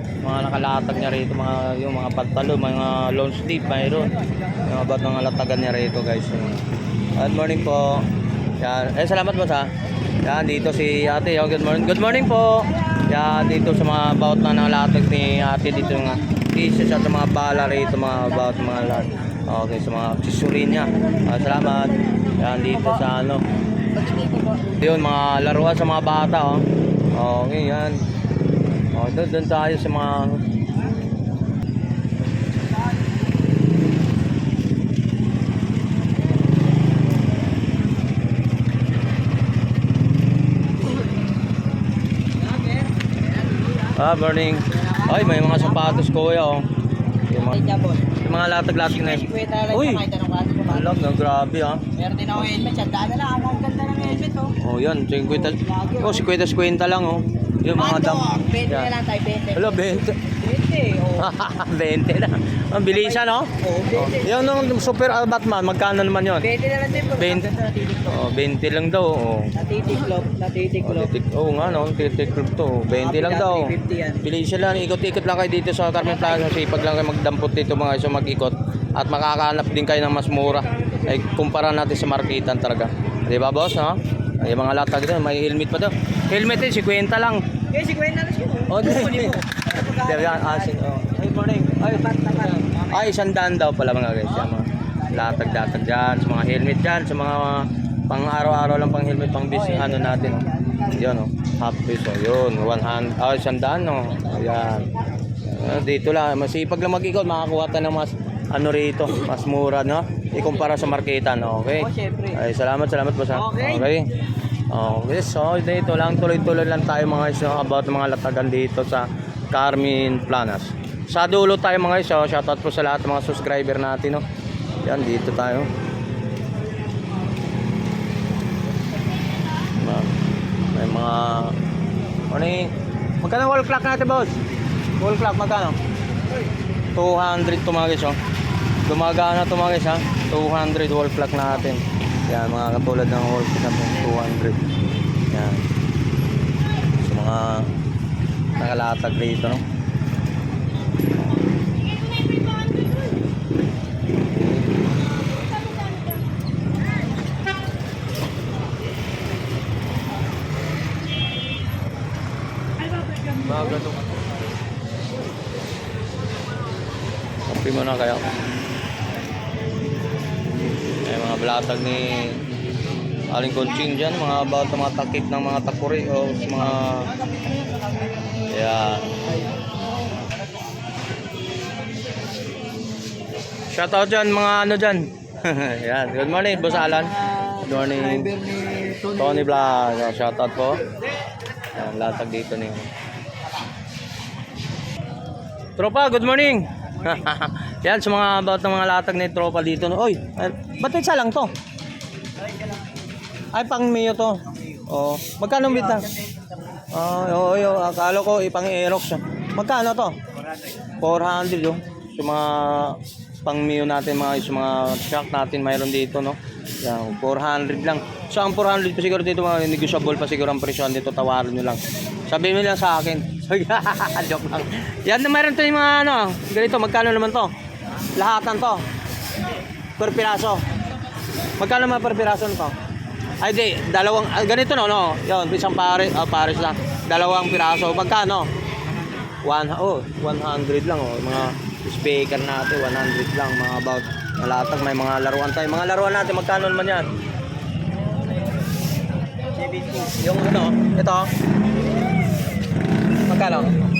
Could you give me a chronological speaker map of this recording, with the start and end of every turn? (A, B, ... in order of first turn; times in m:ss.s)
0:00.2-0:04.1 A
0:04.6-0:06.6 A
0:07.2-0:08.0 A
0:08.6-0:09.7 A
0:10.2-0:23.4 A
0:24.6-0:28.0 A
0:28.9-0:30.4 A
0:43.9-0:46.6 A
0:44.7-0:45.9 B
0:47.3-0:47.6 A
0:47.4-0:48.1 B
0:48.2-0:50.0 A
0:48.8-0:51.0 B
0:50.6-0:51.8 A
0:51.9-0:54.5 B
0:54.6-0:58.9 A
0:55.5-0:56.2 B
0:57.7-1:01.3 B
0:59.5-1:00.2 A
1:01.2-1:06.5 A
1:02.9-1:04.4 B
1:06.4-1:08.2 B
1:07.1-1:09.5 A
1:09.6-1:11.1 B
1:10.8-1:27.4 A
1:13.0-1:14.2 B
1:27.7-1:30.7 B
1:28.7-1:44.9 A
1:31.9-1:33.0 B
1:39.5-1:40.9 B
1:45.4-1:54.1 A
1:51.8-1:52.4 B
1:53.3-1:53.9 B
1:54.7-2:04.2 A
2:04.8-2:05.7 A
2:09.7-2:10.1 A
2:10.7-2:11.6 A
2:12.3-2:14.4 A
2:15.0-2:15.8 A
2:16.9-2:18.2 A
2:18.8-2:24.7 A
2:25.3-2:25.6 A
2:27.0-2:27.7 A
2:28.6-2:29.6 A
2:43.4-2:44.0 A
2:47.5-2:48.3 A
2:51.0-2:52.4 A
2:53.3-2:57.1 A
2:58.5-2:59.1 A
3:03.7-3:08.4 A
3:07.4-3:09.2 B
3:09.0-3:10.8 A
3:11.7-3:12.9 A
3:15.8-3:21.5 A
3:23.5-3:26.1 A
3:25.9-3:26.2 B
3:26.9-3:30.2 A
3:31.0-3:47.5 A
3:48.1-3:48.8 A
3:50.0-3:50.6 A
3:51.6-3:52.7 A
3:53.4-3:58.5 A
3:59.4-4:07.1 A
4:09.6-4:10.1 B
4:10.1-4:11.3 A
4:13.3-4:13.7 A